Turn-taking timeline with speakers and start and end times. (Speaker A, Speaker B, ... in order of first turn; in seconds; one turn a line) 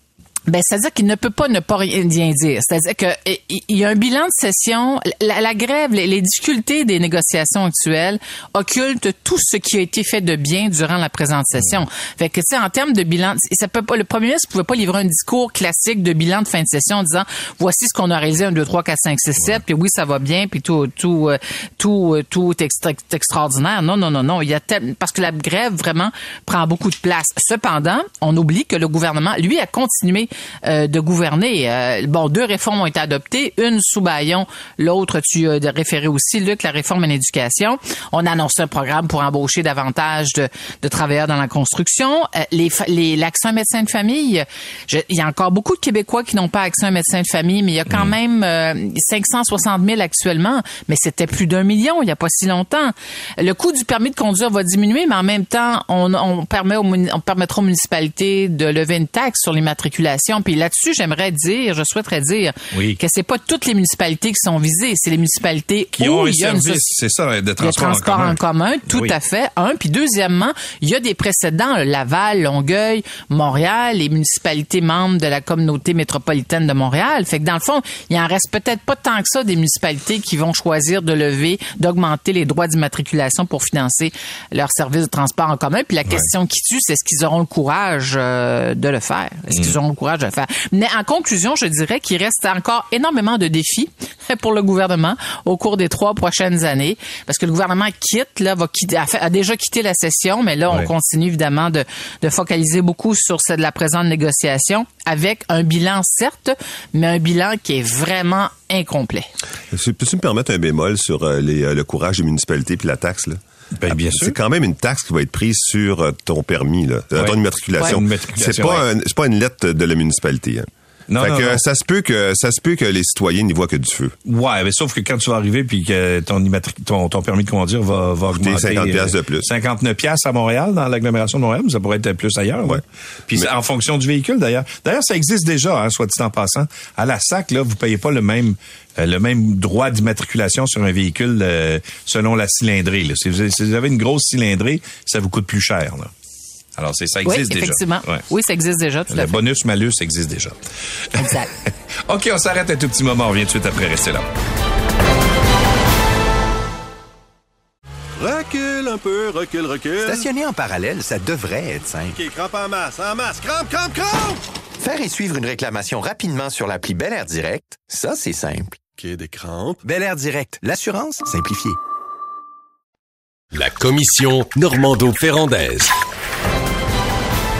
Speaker A: 0.5-66.9
Speaker B: 62.7-63.0
Speaker B: 65.9-68.4
Speaker A: 67.6-109.3
Speaker B: 68.9-69.2
Speaker C: 109.7-120.7
Speaker B: 113.8-114.3
Speaker B: 117.2-118.8
Speaker B: 121.1-121.6
Speaker C: 121.2-124.2
Speaker B: 124.3-146.1
Speaker C: 128.3-129.5
Speaker B: 146.8-148.2
Speaker A: 147.2-149.4
Speaker B: 149.1-150.6
Speaker A: 151.2-151.5
Speaker B: 152.1-154.3
Speaker D: 158.2-160.2
Speaker E: 160.0-162.3
Speaker D: 162.1-164.4
Speaker E: 164.8-168.8
Speaker D: 169.0-169.8
Speaker E: 169.8-171.8
Speaker F: 173.5-175.9